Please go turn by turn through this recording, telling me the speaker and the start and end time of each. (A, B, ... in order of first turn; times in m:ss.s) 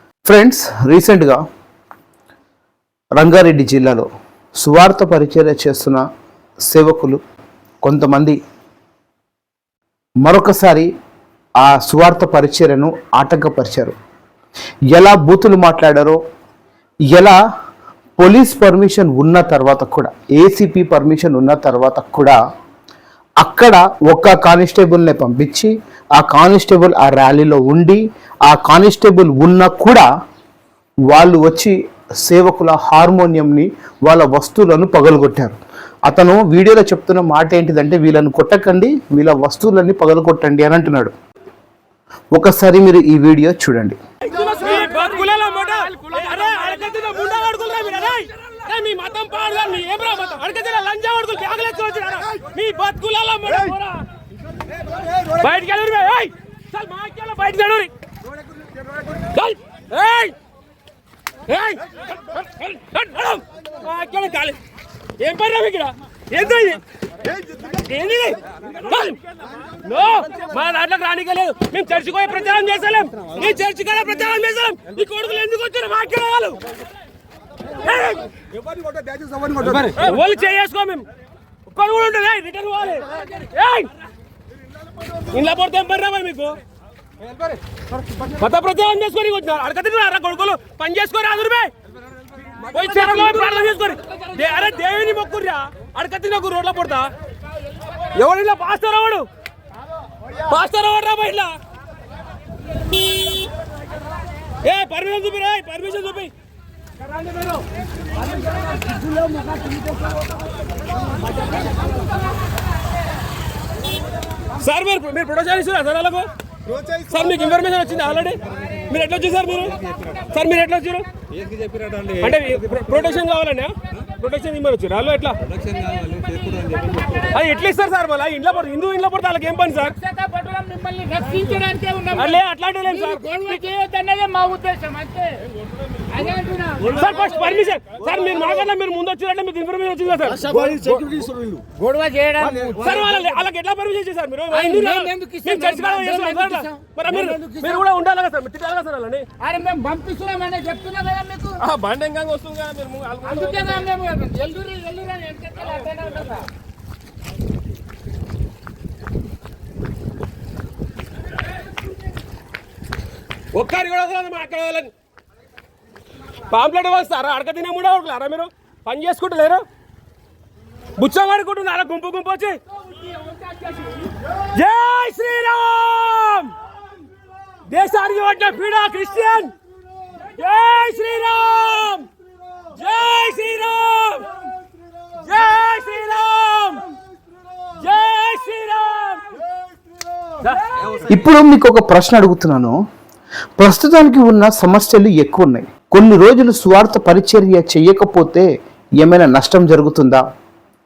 0:00.2-0:01.4 A
0:03.2-0:06.0 A
0:06.7-0:07.2 A
0:07.8-0:08.4 A
0:10.2-0:10.9 A
0:11.6-0:13.9 A
0:14.9-0:16.2 A
0:17.1-0:17.4 A
0:18.2-0:22.4 A
0:23.4-0:30.1 A
0:31.1-0:41.1 A
0:42.3-0:44.0 A
0:44.2-0:54.0 B
0:55.1-0:57.9 B
0:59.2-1:00.3 B
1:01.4-1:04.6 B
1:05.2-1:06.8 B
1:07.6-1:09.2 B
1:09.8-1:16.7 B
1:17.7-1:18.3 B
1:19.5-1:21.0 B
1:21.6-1:23.9 B
1:25.2-1:26.6 B
1:28.2-1:31.7 B
1:32.6-1:37.1 B
1:38.1-1:39.3 B
1:40.5-1:41.5 B
1:44.6-1:46.3 B
1:54.5-1:56.3 B
1:56.9-2:01.1 B
2:01.6-2:10.1 B
2:10.0-2:12.2 C
2:12.1-2:13.8 B
2:13.1-2:15.4 C
2:16.1-2:16.8 C
2:16.8-2:21.3 B
2:21.7-2:22.8 C
2:22.6-2:29.4 B
2:25.0-2:26.2 C
2:29.4-2:31.6 C
2:31.6-2:34.0 B
2:33.4-2:36.5 C
2:43.5-2:44.9 B
2:46.5-2:49.6 B
2:51.0-2:52.6 B
2:53.1-2:56.5 B
2:57.7-2:59.5 B
3:00.2-3:02.1 B
3:02.7-3:04.3 B
3:05.2-3:06.8 B
3:07.8-3:09.3 B
3:10.4-3:11.0 B
3:11.0-3:12.8 A
3:13.6-3:18.5 A
3:19.0-3:20.2 A